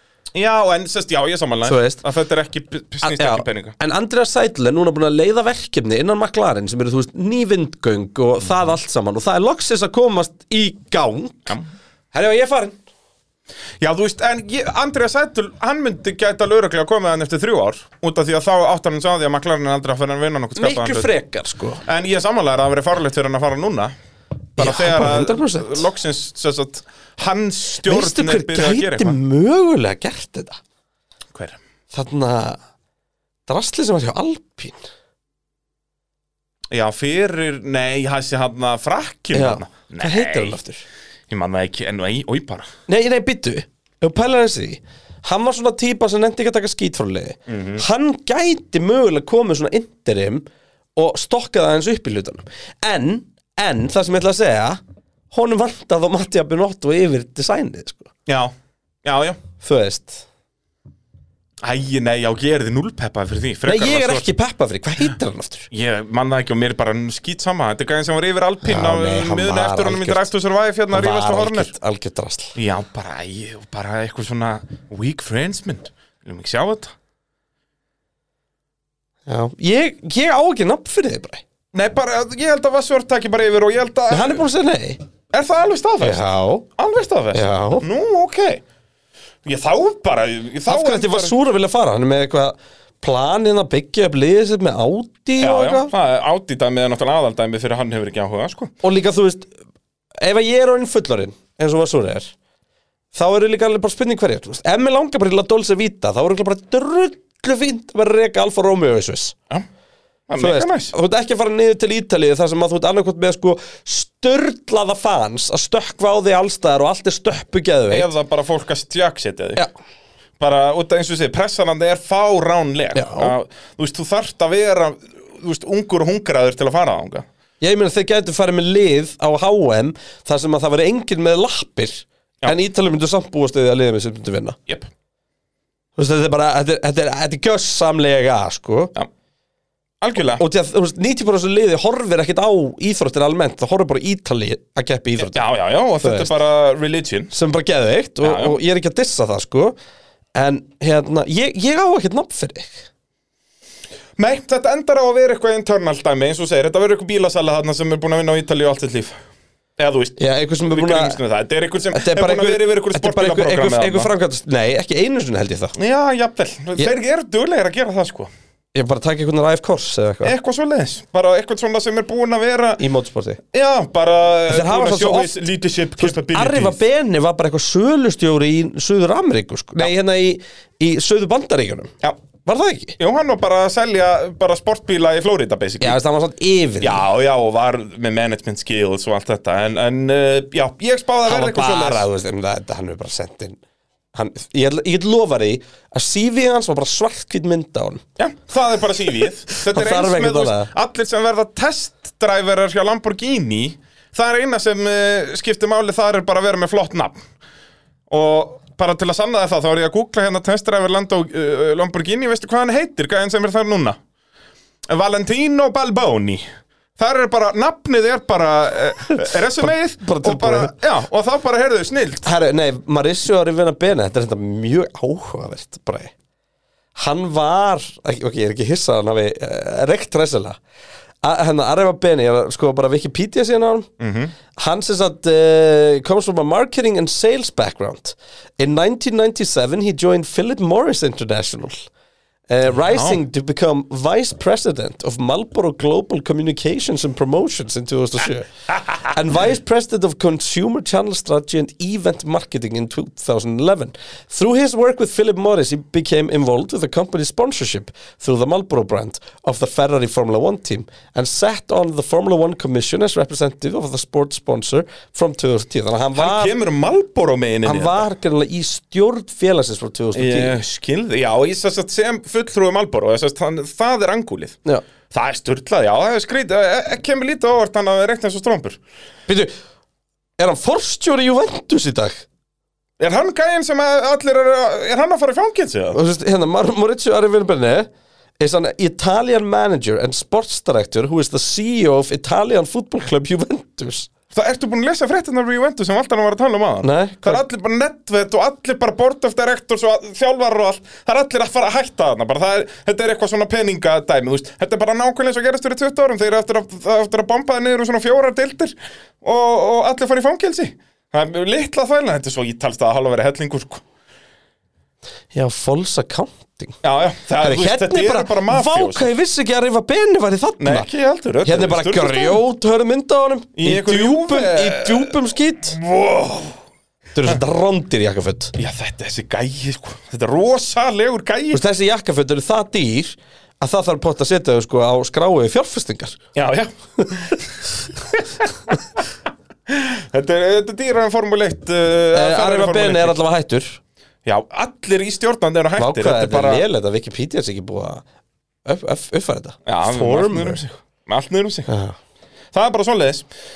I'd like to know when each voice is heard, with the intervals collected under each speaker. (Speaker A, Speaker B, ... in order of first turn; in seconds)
Speaker A: 0.3-3.8, 13.8-21.1, 21.9-23.9, 24.6-29.2, 31.3-31.6, 36.7-40.6, 41.3-42.7, 47.5-47.8, 58.3-58.5, 59.0-59.4, 61.6-64.3, 65.7-71.7, 72.6-76.9, 81.7-84.4, 85.3-86.2, 86.8-88.6, 89.5-91.3, 95.4-98.7, 110.3-110.9, 117.9-119.6, 120.4-127.3, 140.0-140.4, 145.2-147.3, 148.2-148.6, 154.2-159.2, 159.8-160.2, 160.7-164.1, 165.8-168.3, 170.2-172.8, 173.5-176.8, 183.0-186.0, 186.8-192.1, 198.2-207.2, 208.1-214.0, 214.9-216.5, 217.0-222.3, 234.0-234.3, 242.9-243.2, 266.1-268.1, 270.1-274.6, 275.1-278.8, 283.0-286.0, 294.3-313.8, 316.8-319.1, 320.6-322.4, 323.6-326.6, 328.6-331.6, 336.4-338.5, 339.7-343.2, 344.2-346.6, 349.7-351.7, 352.5-353.3
Speaker B: 1.7-2.0, 3.0-11.6, 12.1-12.8, 20.6-21.8, 24.6-25.9, 27.8-30.6, 31.9-32.6, 33.5-34.9, 39.3-40.8, 42.9-50.5, 51.0-54.8, 55.3-58.1, 59.6-60.3, 63.7-65.7, 68.7-70.3, 70.9-72.5, 79.3-81.4, 84.1-85.0, 86.0-86.7, 87.3-87.9, 90.7-95.9, 98.8-99.5, 100.2-102.3, 103.1-109.3, 110.4-118.1, 123.0-123.3, 127.6-134.6, 136.0-138.9, 140.3-145.4, 146.0-146.3, 147.3-149.8, 150.4-152.9, 160.2-161.2, 161.9-165.7, 168.7-170.3, 172.8-173.4, 174.5-175.3, 176.0-181.9, 182.4-183.0, 185.8-187.0, 191.3-193.6, 194.1-198.0, 199.5-200.7, 219.1-220.7, 222.2-226.1, 227.0-230.6, 231.2-233.9, 234.6-241.9, 242.5-266.5, 267.6-270.6, 279.3-279.5, 280.4-282.2, 285.9-287.9, 288.4-294.1, 296.8-297.4, 315.3-316.8, 317.4-320.9, 321.4-325.8, 327.1-328.5, 331.5-336.2, 342.1-343.8, 345.8-348.0, 348.6-350.7, 351.7-352.0